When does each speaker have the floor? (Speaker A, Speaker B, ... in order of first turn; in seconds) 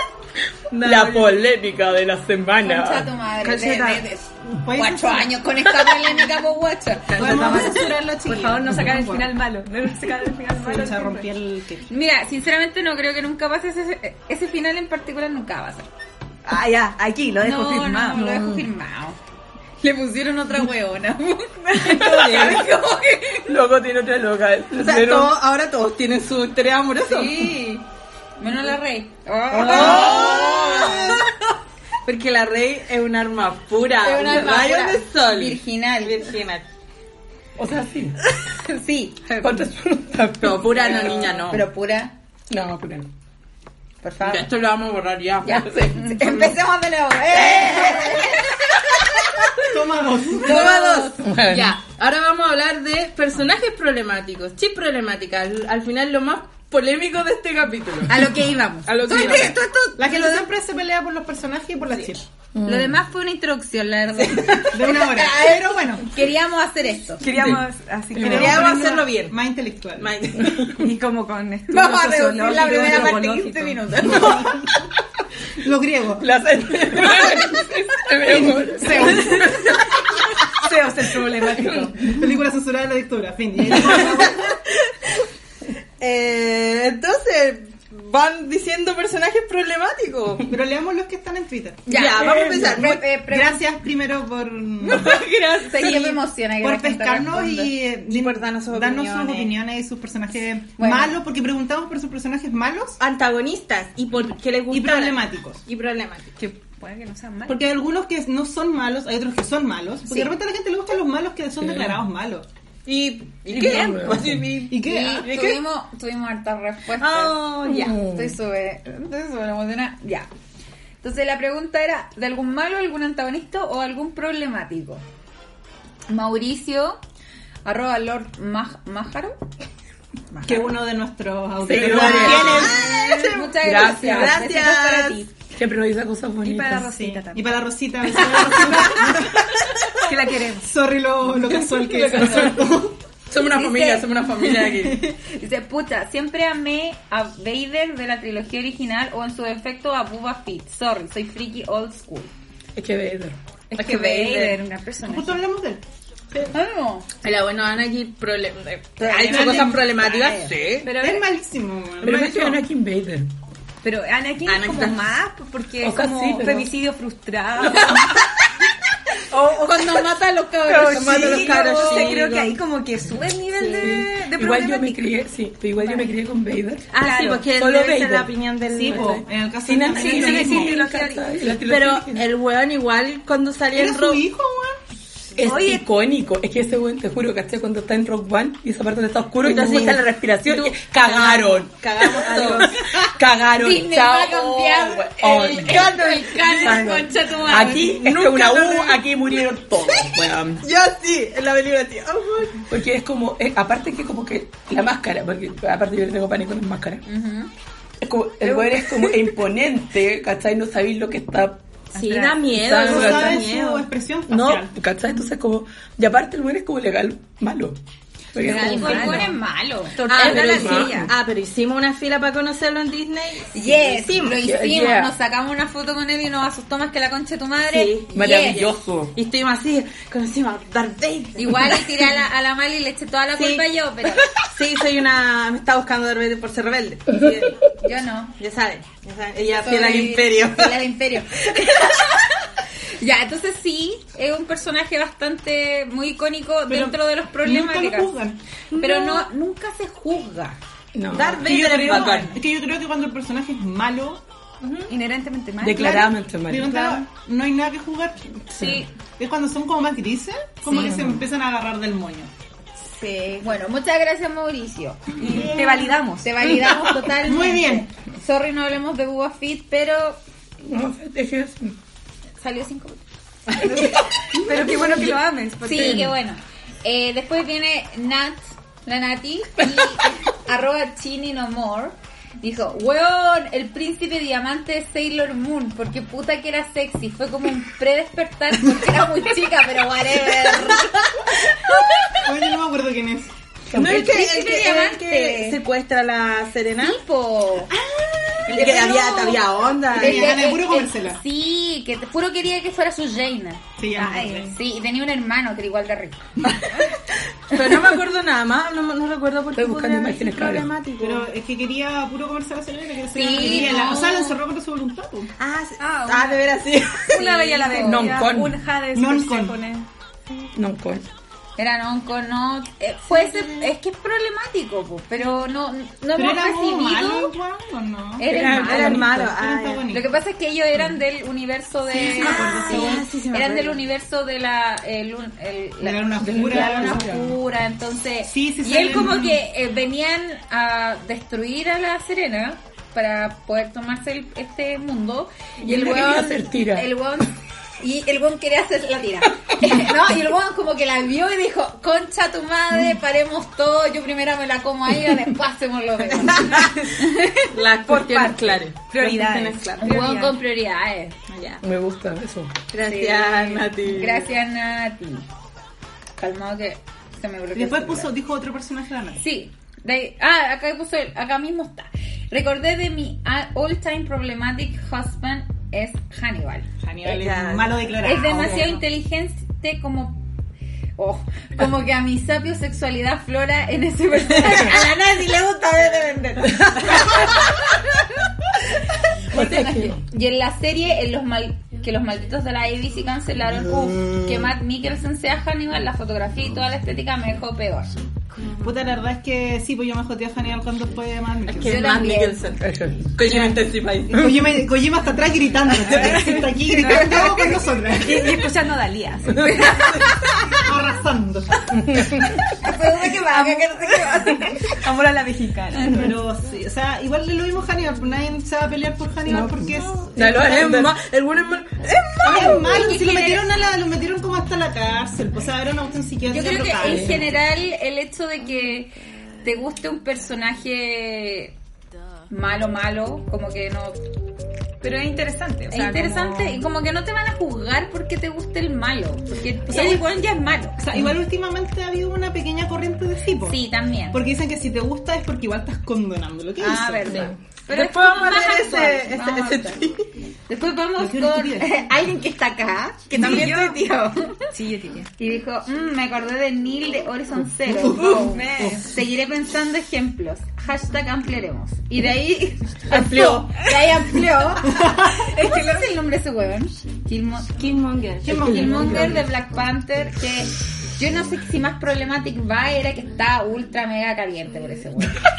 Speaker A: 0.7-1.4, 3.4-4.0, 7.1-7.9, 21.8-22.6, 24.8-27.5, 29.5-31.3, 32.0-36.6, 40.4-41.7, 44.2-46.0, 50.4-58.3, 58.8-59.5, 64.2-64.7, 67.3-67.6, 68.2-69.4, 70.0-70.8, 86.0-90.5, 91.9-93.0, 95.8-96.1, 98.0-99.5, 103.0-106.4, 112.8-115.6, 117.0-118.0, 131.8-135.2, 143.3-145.1, 153.7-154.6, 157.2-160.9, 164.4-165.1, 170.7-172.6, 173.5-174.0, 176.9-179.2, 181.6-184.2, 189.4-192.7, 195.5-199.1, 200.6-202.6, 211.9-213.9, 220.1-224.4, 227.6-232.1, 233.3-237.6, 238.4-240.9, 248.7-249.3, 251.1-252.4, 254.6-254.9, 293.7-297.0, 298.4-300.4, 306.5-306.8, 307.5-311.3, 315.4-317.3, 323.1-323.7, 328.3-329.9, 332.0-333.8, 356.1-360.0, 361.3-361.6, 362.7-364.3, 377.0-377.8, 401.5-404.3, 420.2-422.7, 447.1-450.1, 467.6-468.4
Speaker B: 0.8-3.1, 21.8-22.8, 23.4-25.4, 29.5-30.9, 37.6-38.2, 39.4-41.3, 42.5-43.1, 45.4-46.4, 47.3-48.2, 51.2-51.7, 62.5-63.0, 68.1-68.6, 70.4-70.8, 76.2-79.8, 81.6-81.9, 111.6-112.0, 113.5-114.6, 117.7-118.3, 131.6-132.8, 133.6-134.4, 135.5-136.9, 152.8-153.4, 162.0-163.3, 165.8-166.7, 167.6-168.2, 173.8-176.9, 177.5-178.3, 179.6-182.3, 185.3-200.7, 202.7-207.0, 208.0-211.6, 212.5-213.5, 214.3-217.8, 218.3-219.3, 220.1-221.1, 224.3-225.1, 228.1-229.2, 250.9-252.3, 255.6-256.8, 258.5-258.9, 260.7-261.2, 266.6-266.9, 270.6-271.8, 275.7-276.1, 293.7-294.1, 309.5-310.7, 317.8-318.6, 320.5-321.1, 328.3-329.4, 336.2-337.4, 345.6-346.9, 361.6-362.6, 389.3-390.0, 402.6-403.1, 411.7-412.3, 419.2-421.0, 426.8-427.3, 462.9-463.5, 468.3-469.2
Speaker C: 2.6-7.8, 11.9-15.9, 17.4-19.2, 19.8-23.4, 27.1-27.8, 28.4-31.2, 34.0-36.3, 38.5-39.5, 40.8-42.1, 44.0-44.5, 45.4-49.5, 50.4-51.3, 58.1-60.4, 62.6-67.2, 71.7-74.6, 91.9-93.6, 94.8-97.7, 100.8-101.2, 110.1-110.3, 114.8-120.3, 121.0-125.0, 126.1-127.0, 127.6-129.4, 131.9-135.3, 143.4-152.3, 156.5-157.1, 159.0-160.5, 169.3-172.2, 192.4-197.9, 207.1-207.5, 218.4-220.0, 223.5-228.6, 231.4-234.3, 237.8-238.4, 239.5-242.4, 242.9-248.1, 248.7-250.6, 251.9-252.2, 258.6-258.9, 262.8-270.2, 272.4-273.0, 273.6-292.3, 293.8-295.6, 296.8-297.7, 298.4-306.7, 313.1-314.4, 317.1-318.1, 321.6-327.3, 328.2-329.2, 329.9-357.5, 359.8-361.2, 362.8-365.2, 366.2-368.1, 369.1-376.7, 378.0-380.2, 381.0-387.6, 389.3-397.9, 401.6-402.4, 412.5-414.7, 422.3-423.6, 426.3-431.5, 432.3-434.0, 435.7-440.8, 443.4-444.2, 446.6-449.8, 450.5-454.5, 455.2-467.7, 468.2-475.1
Speaker D: 4.6-5.3, 7.1-9.3, 10.6-11.9, 49.6-50.7, 60.0-62.2, 64.7-66.1, 68.2-70.2, 74.1-74.6, 75.6-76.3, 78.2-79.7, 82.0-84.5, 90.5-92.0, 92.8-95.1, 96.6-103.0, 104.7-105.6, 107.5-112.5, 114.7-115.4, 130.4-132.9, 136.8-139.5, 140.6-143.0, 155.0-155.8, 159.1-160.1, 160.8-162.6, 178.7-180.8, 183.7-184.8, 212.7-214.8, 246.7-248.4, 251.5-254.2, 256.0-258.4, 259.1-262.3, 265.4-265.7, 267.2-267.9, 292.1-293.3, 297.9-299.1, 299.9-301.2, 303.8-304.6, 311.0-315.3, 318.9-319.6, 326.1-328.3, 328.8-330.1, 331.9-333.1, 335.8-337.2, 338.2-339.4, 367.5-369.2, 376.8-378.8, 398.6-401.9, 403.3-408.4, 410.6-411.6, 415.9-420.5, 422.2-427.2, 440.8-447.2, 450.9-451.7, 453.2-453.5, 457.7-458.8, 464.7-465.0, 468.3-469.1
Speaker E: 8.2-11.3, 16.4-18.4, 22.0-22.5, 67.2-68.8, 70.7-73.9, 78.8-82.1, 106.4-107.6, 136.4-139.2, 139.9-140.7, 141.8-142.6, 153.7-155.4, 160.8-161.2, 163.8-168.1, 170.7-175.1, 177.0-177.5, 179.9-181.4, 185.4-185.8, 211.9-212.5, 218.4-219.4, 219.9-221.1, 254.9-256.1, 265.2-266.3, 273.6-276.1, 315.8-319.9, 357.9-360.4, 405.8-410.6, 412.9-416.1, 434.8-436.6, 453.2-453.8, 454.5-455.1, 458.1-458.9, 465.3-465.9